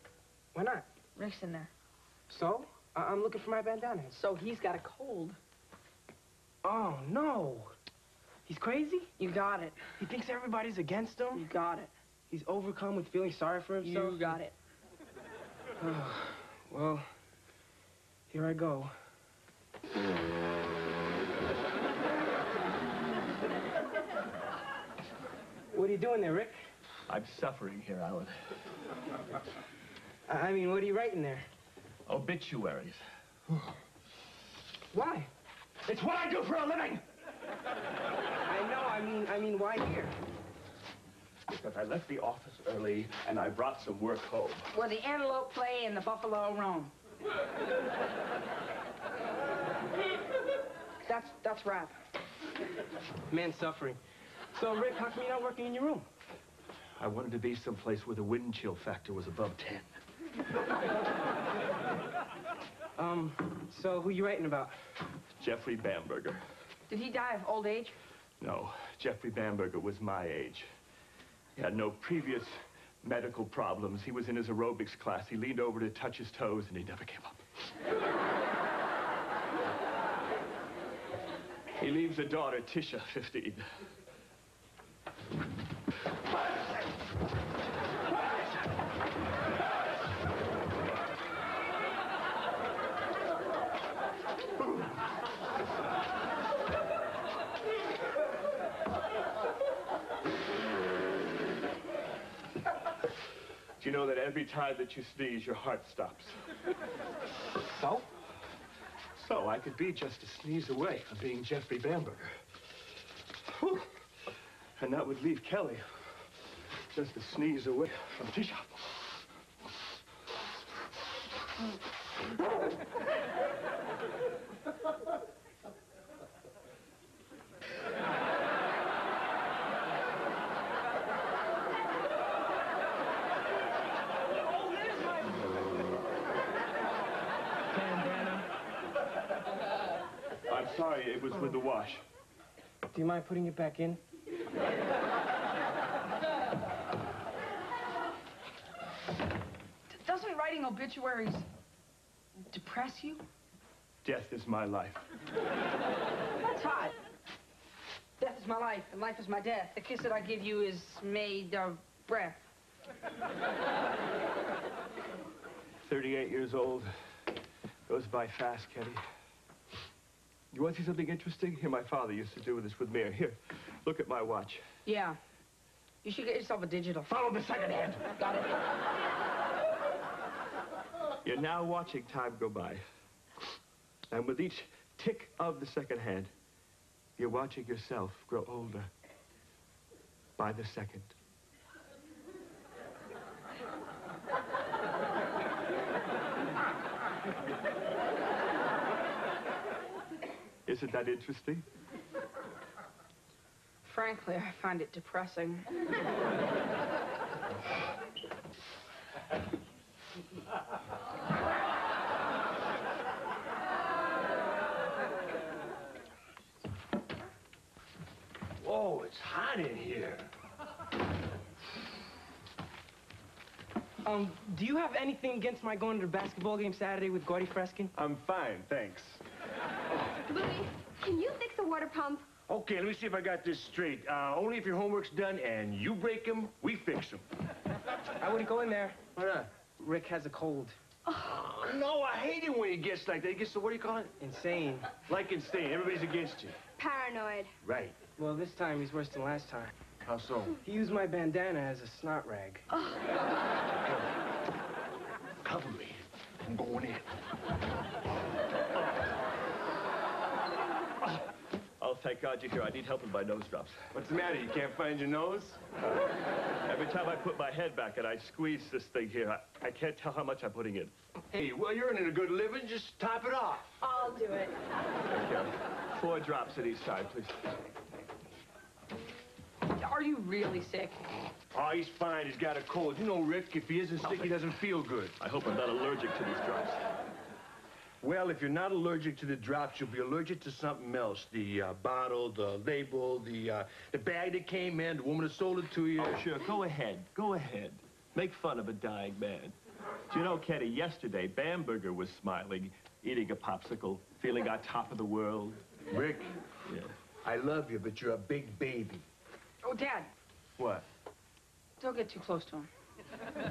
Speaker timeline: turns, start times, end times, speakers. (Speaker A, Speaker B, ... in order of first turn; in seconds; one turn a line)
Speaker A: 0.5-0.9
Speaker B: 1.1-1.7
Speaker A: 2.3-4.2
Speaker B: 4.1-5.4
Speaker A: 6.6-7.7
Speaker A: 8.4-9.1
Speaker B: 9.2-9.9
Speaker A: 10.0-11.5
Speaker B: 11.3-11.9
Speaker A: 12.3-14.4
Speaker B: 13.8-14.5
Speaker A: 15.8-17.1
Speaker A: 18.3-18.9
Speaker A: 25.7-26.7
Speaker C: 27.1-28.4
Speaker A: 30.3-31.4
Speaker C: 32.1-33.0
Speaker A: 34.9-35.3
Speaker C: 35.8-37.0
Speaker A: 38.5-40.1
Speaker C: 41.5-44.7
Speaker B: 44.7-46.9
Speaker B: 51.0-52.0
Speaker A: 53.3-54.0
Speaker A: 54.5-56.0
Speaker C: 57.0-60.0
Speaker A: 63.0-64.7
Speaker C: 65.4-66.4
Speaker B: 66.9-68.0
Speaker C: 68.4-70.7
Speaker C: 71.5-77.4
Speaker C: 81.8-83.6
Speaker C: 103.8-106.3
Speaker C: 107.7-108.0
Speaker C: 109.1-112.4
Speaker C: 113.4-113.9
Speaker C: 114.8-116.2
Speaker C: 116.9-119.2
Speaker A: 134.7-135.1
Speaker C: 137.8-138.4
Speaker C: 140.5-142.0
Speaker A: 142.9-144.0
Speaker B: 149.9-151.4
Speaker B: 152.5-153.2
Speaker C: 154.0-155.0
Speaker B: 156.4-156.9
Speaker B: 158.2-162.4
Speaker C: 165.8-166.9
Speaker C: 167.9-169.0
Speaker C: 170.5-174.7
Speaker B: 174.8-175.2
Speaker B: 176.0-177.1
Speaker C: 177.1-178.1
Speaker B: 178.2-178.5
Speaker C: 181.2-182.8
Speaker C: 184.1-186.3
Speaker C: 187.2-188.9
Speaker C: 190.4-191.1
Speaker C: 200.7-201.6
Speaker B: 203.8-205.7
Speaker D: 218.6-220.3
Speaker A: 224.0-227.9
Speaker D: 227.9-229.2
Speaker E: 230.2-232.3
Speaker D: 232.5-237.2
Speaker A: 238.2-240.7
Speaker D: 239.2-239.4
Speaker E: 241.1-241.6
Speaker D: 241.5-244.1
Speaker A: 244.2-245.0
Speaker D: 245.0-246.6
Speaker E: 246.8-247.5
Speaker D: 247.6-248.0
Speaker A: 248.2-249.7
Speaker D: 250.0-250.6
Speaker A: 250.6-252.6
Speaker D: 253.7-254.1
Speaker D: 255.4-257.1
Speaker C: 261.8-263.8
Speaker D: 263.9-265.6
Speaker C: 266.6-270.9
Speaker D: 271.3-273.8
Speaker E: 273.8-274.6
Speaker C: 275.1-277.3
Speaker B: 279.7-281.0
Speaker D: 281.5-285.1
Speaker C: 284.0-284.4
Speaker C: 285.2-286.8
Speaker D: 288.0-296.2
Speaker C: 296.0-299.5
Speaker C: 300.1-305.6
Speaker D: 305.9-306.3
Speaker C: 306.6-306.9
Speaker D: 307.2-309.1
Speaker B: 309.6-310.1
Speaker D: 310.6-310.9
Speaker B: 311.8-312.7